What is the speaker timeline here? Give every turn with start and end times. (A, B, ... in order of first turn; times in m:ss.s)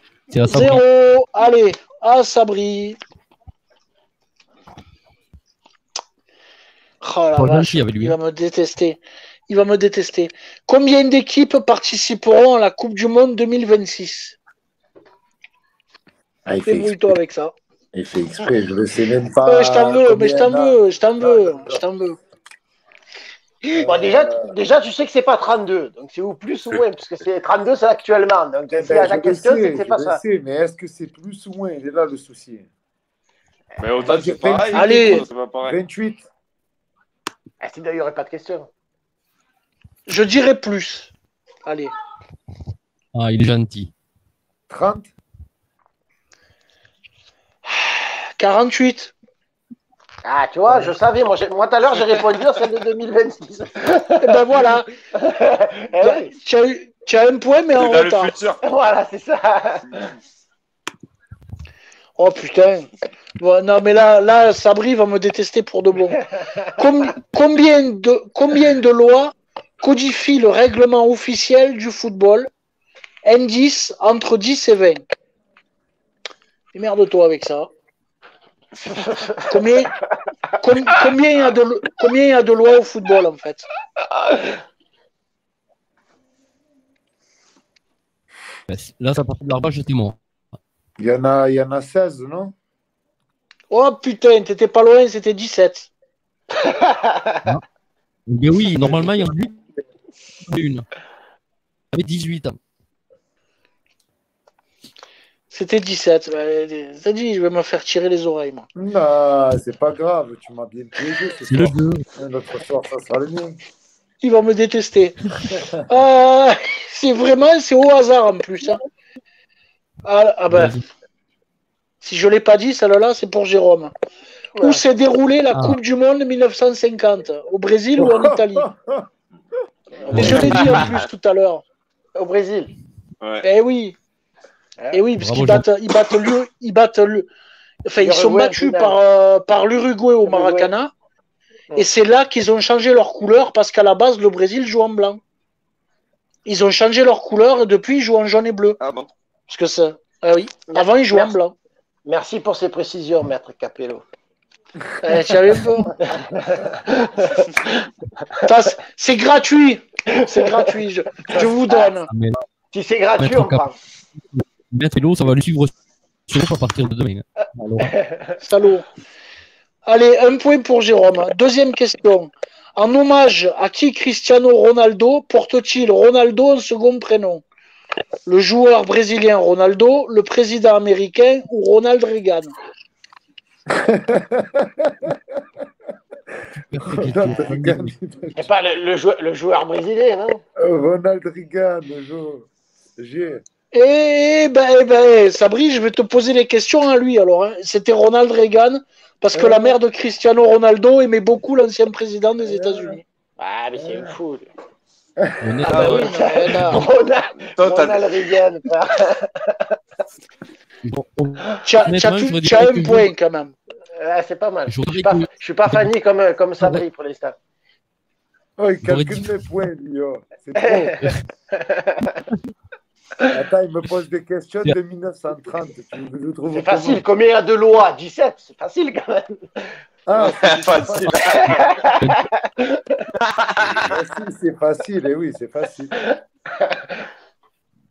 0:00.3-0:00.8 A
0:00.4-0:03.0 B
0:07.0-0:14.4 B
0:07.4-0:08.2 A
0:16.4-0:17.2 C
0:16.7-0:17.5 B
0:17.9-0:21.8 C
0:19.4-0:22.2 B
0:23.7-0:24.5 C
0:23.8-0:30.2 D
0:28.7-0:32.7 C
0:33.8-0:35.8 E
0:34.1-0:34.9 C
0:34.7-0:35.3 B
0:35.6-0:36.2 C
0:37.6-0:38.7 D
0:40.1-0:41.1 B
0:41.6-0:41.9 B
0:43.2-0:43.9 A
0:44.7-0:45.1 C
0:48.4-0:49.1 B
0:50.2-0:54.6 D
0:54.2-0:54.9 B
0:55.1-0:56.3 D
0:56.0-0:58.3 B
0:57.7-0:58.6 E
0:58.6-1:00.1 D
1:02.2-1:06.2 B
1:06.8-1:12.5 B
1:13.2-1:15.0 B
1:16.7-1:17.7 B
1:18.8-1:19.6 D
1:19.5-1:19.9 B
1:20.6-1:23.7 B
1:24.2-1:24.6 D
1:28.7-1:30.2 A
1:31.0-1:32.5 C
1:33.7-1:35.9 B
1:36.5-1:37.4 D
1:38.3-1:39.5 A
1:38.8-1:39.1 C
1:40.5-1:40.9 A
1:41.9-1:42.6 A
1:45.5-1:48.7 B
1:48.8-1:53.6 C
1:51.5-1:52.0 A
1:54.2-1:55.3 B
1:55.9-1:58.8 B
2:00.0-2:00.8 B
2:00.5-2:00.8 A
2:02.0-2:03.9 B
2:04.6-2:04.8 D
2:04.6-2:08.7 B
2:08.0-2:09.1 C
2:10.0-2:10.6 D
2:10.1-2:10.9 A
2:10.1-2:11.6 B
2:10.2-2:11.0 E
2:12.2-2:12.7 D
2:13.2-2:13.5 E
2:13.4-2:14.0 B
2:14.8-2:15.0 D
2:14.9-2:17.3 B
2:15.2-2:15.6 A
2:17.8-2:20.9 B
2:18.0-2:19.0 D
2:20.2-2:20.7 D
2:21.8-2:25.2 B
2:26.4-2:28.8 B
2:28.8-2:29.1 E
2:29.5-2:31.5 B
2:30.7-2:31.3 D
2:32.1-2:34.0 D
2:35.0-2:35.9 B
2:36.0-2:37.9 D
2:38.4-2:42.1 B
2:40.1-2:41.9 D
2:42.1-2:42.4 A
2:42.7-2:43.7 D
2:43.2-2:43.6 A
2:44.2-2:45.7 A
2:46.3-2:47.9 A
2:47.8-2:48.4 D
2:48.4-2:48.8 B
2:49.9-2:57.4 B
2:58.3-3:02.5 B
3:03.7-3:05.2 C
3:06.6-3:07.9 A
3:07.0-3:08.5 C
3:08.4-3:10.4 D
3:10.6-3:13.4 C
3:13.7-3:23.0 B
3:19.4-3:19.7 C
3:22.4-3:23.0 C
3:23.4-3:24.4 D
3:23.8-3:24.1 C
3:25.4-3:26.1 A
3:25.7-3:29.7 D
3:25.7-3:26.1 E
3:25.7-3:26.8 B
3:27.6-3:28.2 E
3:30.9-3:33.1 A
3:31.6-3:33.5 B
3:34.0-3:37.4 D
3:34.7-3:35.9 A
3:38.6-3:41.2 C
3:38.9-3:39.3 A
3:40.6-3:41.0 D
3:41.5-3:42.2 D
3:43.3-3:47.0 C
3:46.5-3:49.7 D
3:50.1-3:51.5 C
3:50.2-3:51.8 E
3:51.2-3:53.0 D
3:52.0-3:52.3 A
3:53.2-3:53.9 E
3:53.8-3:55.9 C
3:56.2-3:57.0 D